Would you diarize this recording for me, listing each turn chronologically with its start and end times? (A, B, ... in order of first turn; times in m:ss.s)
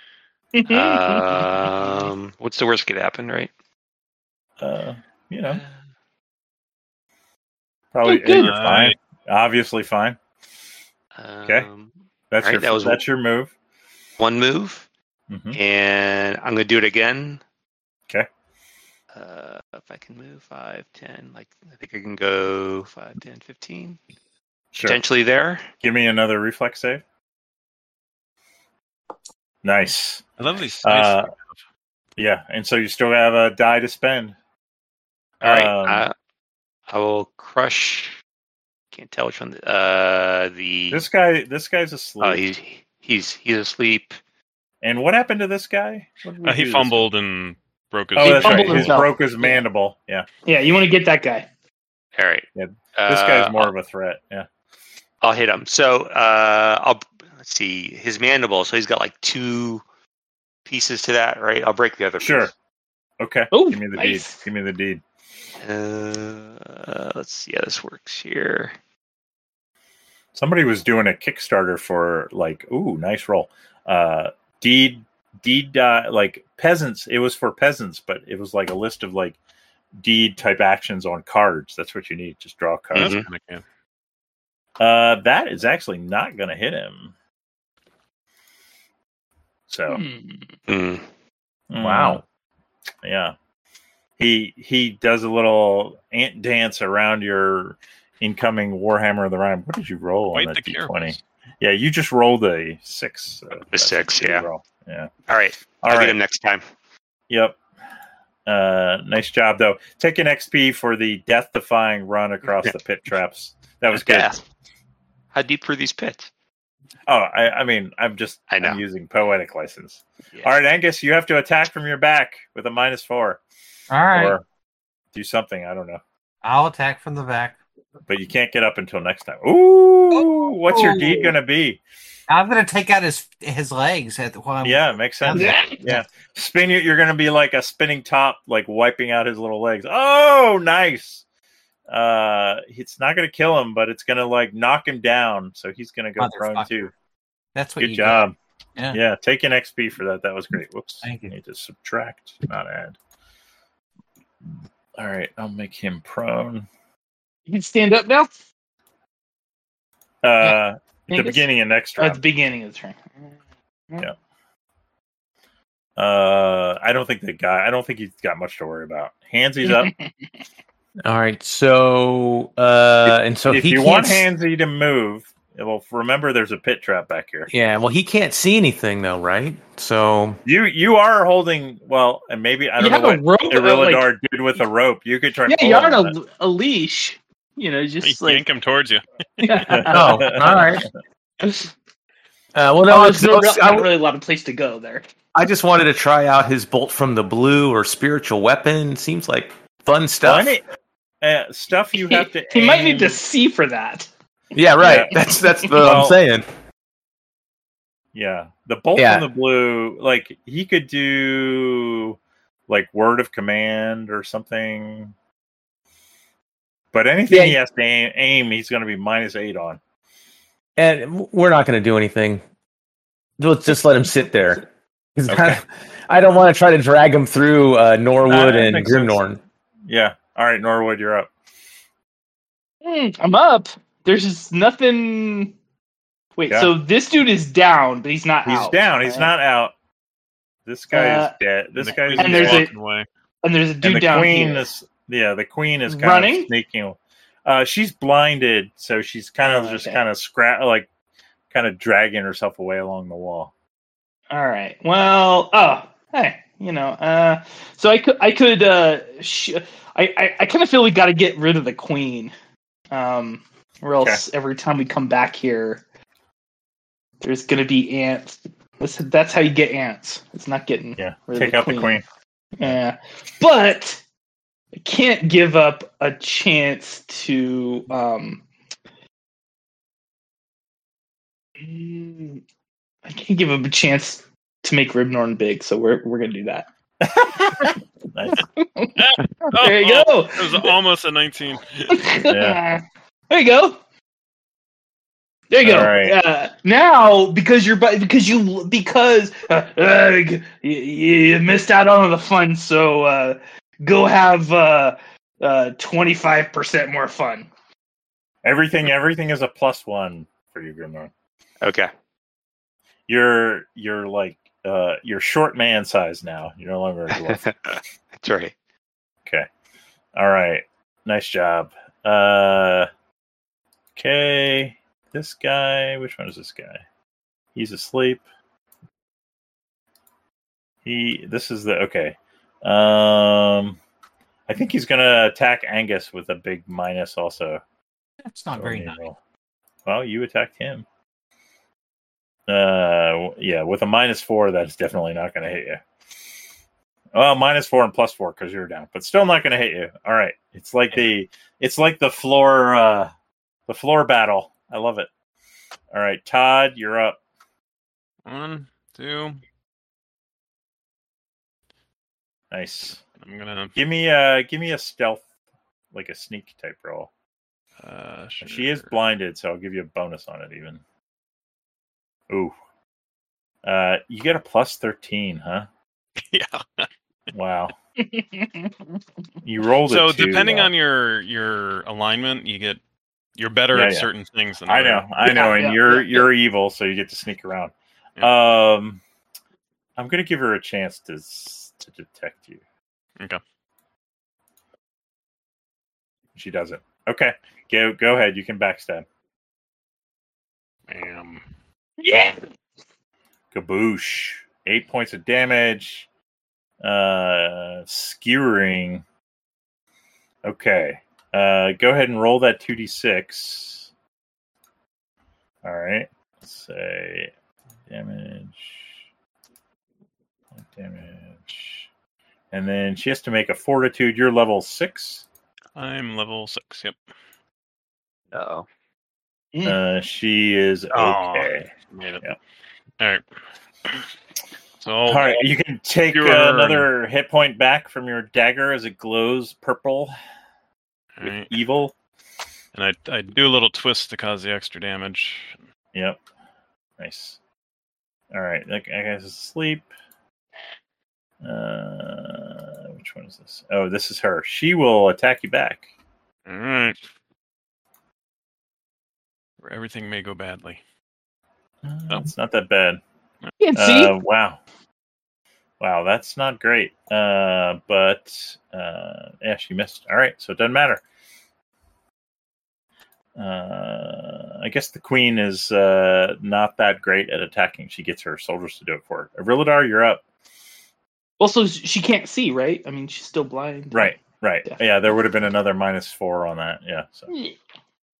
0:00.6-0:01.3 A
0:00.6-0:03.5 B
0:04.6-0:05.6 C
0:05.4-0:05.7 B
0:07.9-0:10.2 C
0:08.0-0:08.6 A
0:08.3-0:09.0 D
0:11.1-0:13.0 B
0:12.3-0:13.5 C
0:14.2-0:14.8 B
0:15.3-0:15.6 C
0:15.5-0:17.4 B
0:19.1-0:24.0 B
0:24.8-0:25.7 B
0:25.8-0:27.0 C
0:29.6-0:30.3 C
0:30.4-0:31.6 D
0:30.8-0:31.3 C
0:32.2-0:34.4 C
0:35.4-0:36.1 C
0:35.4-0:36.1 B
0:36.9-0:38.2 B
0:38.9-0:41.0 B
0:40.9-0:42.4 C
0:42.2-0:44.2 B
0:44.8-0:47.1 C
0:46.4-0:49.0 D
0:48.2-0:49.6 A
0:48.2-0:50.3 C
0:50.4-0:51.5 A
0:52.2-0:53.7 B
0:52.6-0:54.5 C
0:55.2-0:59.8 B
1:00.6-1:02.5 B
1:02.2-1:02.5 C
1:03.2-1:05.0 C
1:03.5-1:04.4 A
1:05.6-1:08.8 B
1:10.3-1:19.4 C
1:19.9-1:23.1 C
1:22.9-1:23.6 D
1:22.9-1:23.3 B
1:24.8-1:27.1 C
1:29.7-1:30.0 C
1:29.9-1:30.5 A
1:30.7-1:31.0 B
1:31.7-1:32.2 C
1:31.8-1:32.2 E
1:33.0-1:33.4 C
1:34.2-1:45.1 C
1:40.3-1:41.2 D
1:43.7-1:44.5 B
1:45.3-1:46.6 B
1:45.8-1:46.2 C
1:47.3-1:47.6 C
1:48.4-1:54.3 C
1:53.9-1:54.4 B
1:55.3-1:56.3 B
1:57.1-2:03.4 C
1:58.5-1:58.8 B
2:03.9-2:04.4 F
2:04.1-2:04.4 C
2:05.1-2:06.0 C
2:06.4-2:07.6 F
2:08.1-2:11.8 C
2:10.1-2:11.4 F
2:12.3-2:16.0 F
2:14.6-2:21.2 C
2:15.3-2:15.8 A
2:21.9-2:26.9 C
2:26.2-2:26.9 F
2:27.6-2:28.2 F
2:27.8-2:28.4 C
2:28.8-2:29.0 F
2:28.9-2:33.0 C
2:31.0-2:31.3 F
2:34.4-2:36.7 C
2:37.5-2:38.4 A
2:40.2-2:42.2 C
2:41.1-2:41.4 A
2:42.0-2:43.4 A
2:46.0-2:49.9 C
2:49.6-2:50.1 A
2:51.0-2:54.3 E
2:53.5-2:57.5 C
2:57.5-3:00.4 E
3:00.4-3:06.1 C
3:02.8-3:04.1 A
3:05.4-3:08.4 A
3:08.0-3:09.8 D
3:09.4-3:10.4 A
3:09.7-3:10.8 C
3:09.9-3:10.9 E
3:11.4-3:11.7 E
3:12.6-3:13.9 E
3:12.9-3:15.1 A
3:15.4-3:20.6 E
3:20.2-3:20.6 C
3:21.2-3:23.2 C
3:22.0-3:24.1 A
3:24.6-3:26.5 E
3:24.8-3:26.2 C
3:28.1-3:35.1 C
3:29.0-3:29.3 E
3:36.9-3:39.8 C
3:37.3-3:37.6 E
3:40.8-3:42.4 E
3:43.4-3:44.6 E
3:45.2-3:49.4 E
3:45.3-3:45.6 C
3:48.3-3:49.2 C
3:49.8-3:51.3 C
3:52.8-3:55.5 A
3:56.4-3:59.3 A
3:58.4-3:59.7 C
4:00.6-4:02.7 C
4:00.9-4:01.3 A
4:01.8-4:03.1 D
4:02.1-4:02.7 A
4:03.4-4:04.6 A
4:03.8-4:10.9 C
4:05.9-4:06.5 A
4:09.4-4:10.0 A
4:11.5-4:13.5 C
4:14.3-4:22.3 A
4:22.9-4:25.8 A
4:27.2-4:32.0 A
4:31.0-4:32.0 C
4:32.6-4:34.0 A
4:34.8-4:38.4 A
4:41.6-4:42.4 A
4:43.1-4:46.7 A
4:47.0-4:48.4 C
4:48.3-4:50.7 A
4:49.0-4:51.9 D
4:51.9-4:53.8 A
4:52.3-4:52.6 C
4:55.5-5:07.5 A
4:55.6-4:56.2 C
5:08.4-5:11.1 C
5:11.6-5:11.9 B
5:13.1-5:17.5 C
5:17.1-5:18.5 B
5:20.1-5:22.9 C
5:24.0-5:26.8 C
5:27.6-5:28.2 C
5:30.8-5:33.8 C
5:34.5-5:37.6 C
5:38.2-5:39.0 F
5:38.5-5:39.2 C
5:39.8-5:40.8 C
5:42.5-5:45.8 C
5:47.1-5:53.1 C
5:53.7-5:55.1 C
5:55.9-5:57.2 C
5:58.3-5:59.4 D
6:02.5-6:03.0 C
6:03.2-6:03.7 D
6:03.8-6:05.2 C
6:05.9-6:07.1 C
6:07.8-6:08.9 D
6:08.4-6:10.8 C
6:12.3-6:12.6 C
6:13.6-6:15.7 C
6:16.2-6:16.9 D
6:17.3-6:17.7 C
6:18.0-6:18.9 A
6:19.4-6:20.7 C
6:19.8-6:22.8 D
6:23.4-6:25.2 D
6:23.7-6:24.1 C
6:24.6-6:29.0 C
6:25.2-6:26.3 A
6:30.0-6:32.6 C
6:36.4-6:39.1 C
6:40.9-6:41.4 D
6:42.0-6:42.4 A
6:43.5-6:46.1 C
6:46.8-6:49.0 C
6:50.4-6:53.9 C
6:55.6-6:57.3 C
6:57.9-6:59.0 C
7:00.6-7:01.9 C
7:02.5-7:05.3 C
7:05.7-7:07.0 D
7:08.3-7:08.6 D
7:09.5-7:09.8 A
7:09.6-7:11.7 C
7:10.9-7:12.3 D
7:14.8-7:15.4 D
7:15.1-7:20.1 C
7:16.1-7:16.9 D
7:21.2-7:21.5 D
7:21.2-7:21.9 C
7:22.7-7:25.6 D
7:25.9-7:26.2 C
7:27.0-7:27.4 C
7:28.3-7:29.9 C
7:31.4-7:35.9 C
7:36.5-7:37.0 D
7:39.6-7:40.8 D
7:41.8-7:43.0 C
7:43.6-7:44.1 A
7:43.7-7:44.6 C
7:45.8-7:51.0 C
7:53.4-8:00.2 C
8:01.4-8:04.8 A
8:03.9-8:07.3 C